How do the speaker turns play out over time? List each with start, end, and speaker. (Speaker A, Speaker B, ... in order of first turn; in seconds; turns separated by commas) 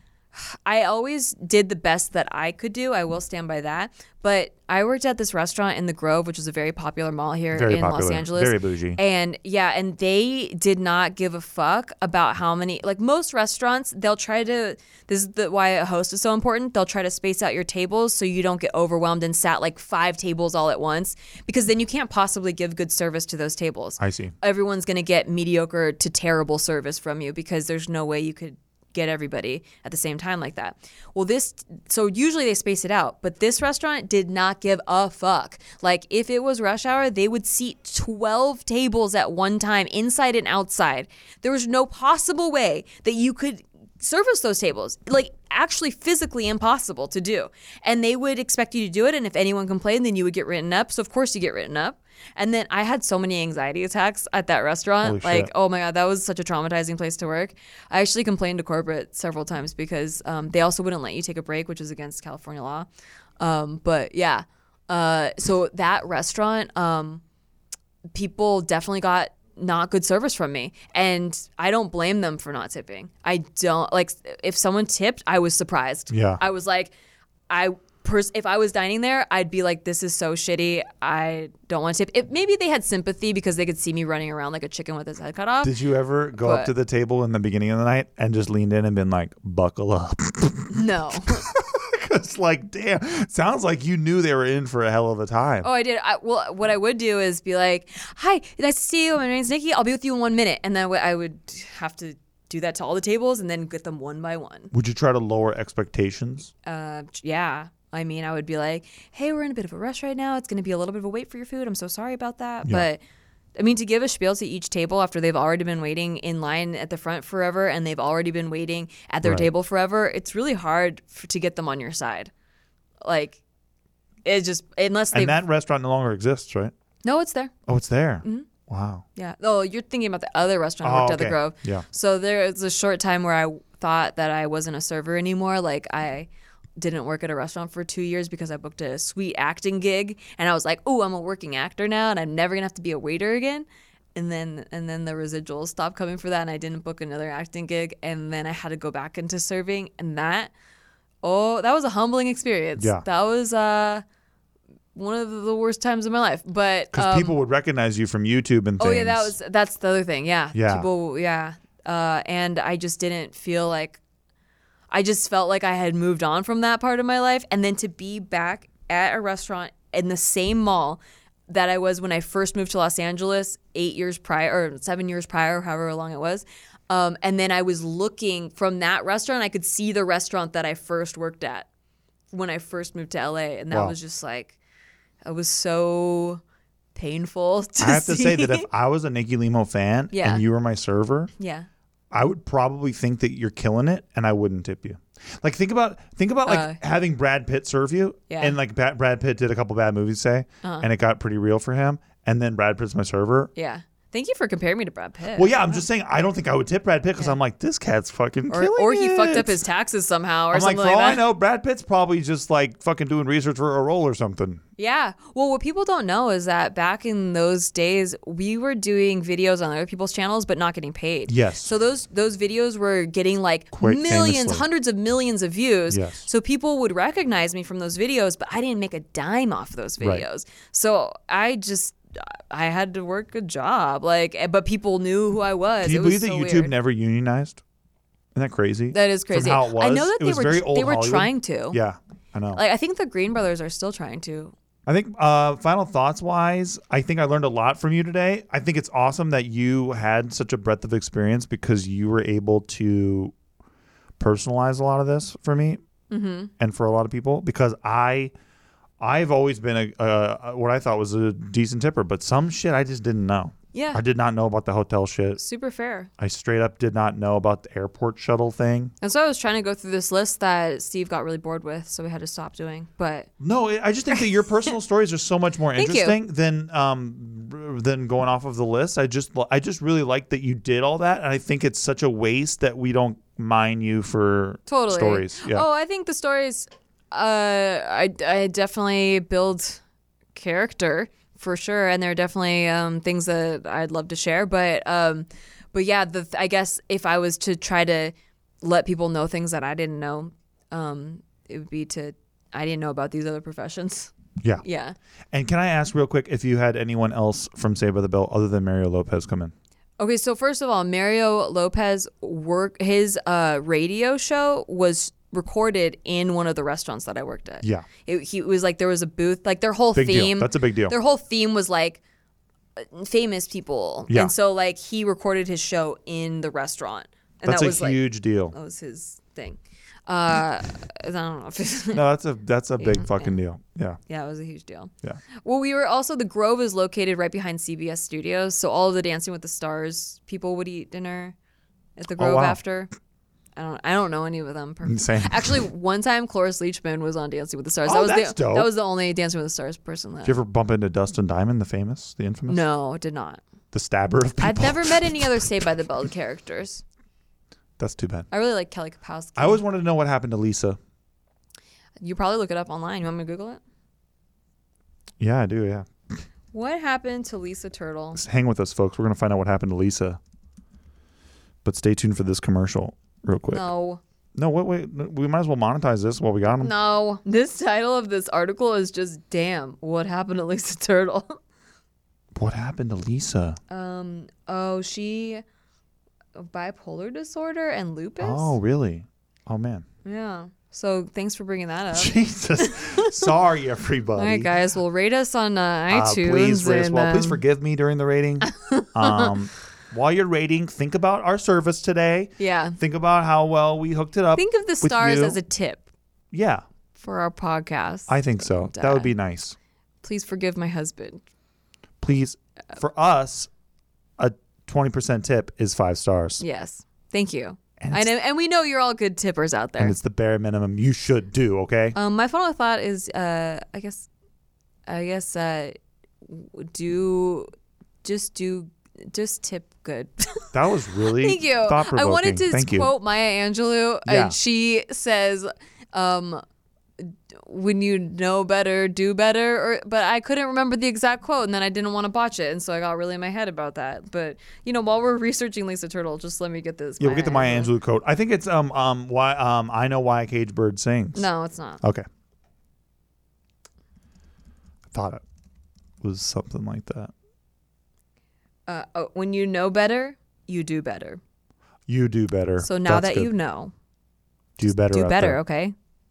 Speaker A: 0.3-62.9, Speaker B: 7.5-9.0, Speaker B: 24.0-24.3, Speaker B: 55.0-55.5, Speaker A: 63.4-67.2, Speaker A: 68.1-76.9, Speaker B: 76.1-76.4, Speaker A: 77.5-85.8, Speaker B: 85.6-95.7, Speaker A: 86.3-86.7, Speaker A: 90.7-91.4, Speaker A: 95.6-104.7, Speaker B: 104.7-106.5, Speaker A: 106.6-113.0, Speaker A: 113.6-122.3, Speaker B: 119.2-119.5, Speaker A: 123.0-123.4, Speaker A: 124.2-125.4, Speaker B: 125.1-126.7, Speaker A: 127.0-127.5, Speaker B: 127.7-129.0, Speaker A: 128.2-128.5, Speaker A: 129.2-150.5, Speaker B: 130.8-131.8, Speaker A: 151.2-154.0, Speaker B: 152.8-153.1, Speaker A: 154.9-157.4, Speaker B: 156.9-159.3, Speaker A: 158.8-164.0, Speaker B: 160.5-160.9, Speaker A: 164.9-181.7, Speaker A: 182.3-184.6, Speaker B: 183.7-184.0, Speaker A: 185.2-186.4, Speaker A: 186.9-188.7, Speaker B: 187.8-191.3, Speaker A: 190.1-190.4, Speaker A: 191.4-191.7, Speaker B: 192.1-203.5, Speaker A: 196.5-196.8, Speaker A: 198.3-198.6, Speaker A: 203.6-205.8, Speaker B: 205.3-209.6, Speaker A: 208.5-211.2, Speaker B: 210.5-214.6, Speaker A: 214.8-236.7, Speaker B: 221.3-221.7, Speaker B: 223.7-224.7, Speaker B: 225.9-226.3, Speaker B: 235.8-237.6, Speaker B: 238.3-242.6, Speaker A: 238.9-241.8, Speaker A: 242.5-244.6, Speaker B: 244.9-253.3, Speaker B: 254.2-255.8, Speaker A: 256.1-256.5, Speaker B: 256.6-258.3, Speaker B: 259.0-265.4, Speaker A: 263.7-264.0, Speaker A: 265.4-266.1, Speaker B: 266.2-268.9, Speaker A: 269.0-273.3, Speaker B: 273.4-285.7, Speaker A: 275.8-276.2, Speaker A: 284.7-289.8, Speaker A: 290.4-304.1, Speaker A: 304.6-305.0, Speaker B: 305.3-309.5, Speaker A: 310.0-322.0, Speaker B: 317.6-317.9, Speaker B: 320.0-321.0, Speaker A: 322.8-332.0, Speaker B: 327.5-328.6, Speaker B: 331.9-334.0, Speaker A: 332.8-333.4, Speaker A: 334.1-341.4, Speaker A: 342.0-342.9, Speaker B: 342.2-342.6, Speaker A: 343.6-350.3, Speaker B: 344.8-345.7, Speaker B: 347.9-348.7, Speaker B: 350.2-352.6, Speaker A: 352.5-353.4, Speaker B: 353.7-355.5, Speaker A: 354.4-356.8, Speaker B: 357.8-358.3, Speaker A: 358.3-359.6, Speaker B: 359.4-360.8, Speaker A: 362.0-363.6, Speaker B: 365.2-365.9, Speaker A: 366.5-368.2, Speaker B: 368.1-370.2, Speaker B: 371.6-373.7, Speaker A: 373.5-374.0, Speaker B: 374.4-376.7, Speaker A: 376.6-381.4, Speaker B: 382.4-383.6, Speaker A: 383.7-385.4, Speaker A: 386.3-388.6, Speaker B: 388.2-389.9, Speaker A: 390.1-393.3, Speaker B: 391.9-394.5, Speaker A: 394.2-397.4, Speaker B: 395.9-405.4, Speaker A: 398.4-399.3, Speaker A: 402.4-402.8, Speaker A: 404.4-405.9, Speaker B: 406.3-406.6, Speaker A: 407.0-409.1, Speaker B: 408.1-409.6, Speaker A: 410.0-411.2, Speaker B: 412.0-413.5, Speaker B: 414.2-416.4, Speaker A: 416.4-420.0, Speaker B: 417.8-418.1, Speaker B: 419.8-422.0, Speaker A: 421.9-424.1, Speaker A: 424.9-427.5, Speaker A: 428.0-430.5, Speaker B: 430.5-432.9, Speaker A: 431.1-436.4, Speaker B: 434.1-434.4, Speaker A: 437.0-447.7, Speaker B: 447.0-451.3, Speaker A: 451.1-451.8, Speaker B: 454.9-455.2, Speaker B: 456.0-457.1, Speaker A: 458.7-461.2, Speaker B: 461.9-463.3, Speaker A: 462.6-463.7, Speaker B: 464.6-465.4, Speaker A: 464.6-465.8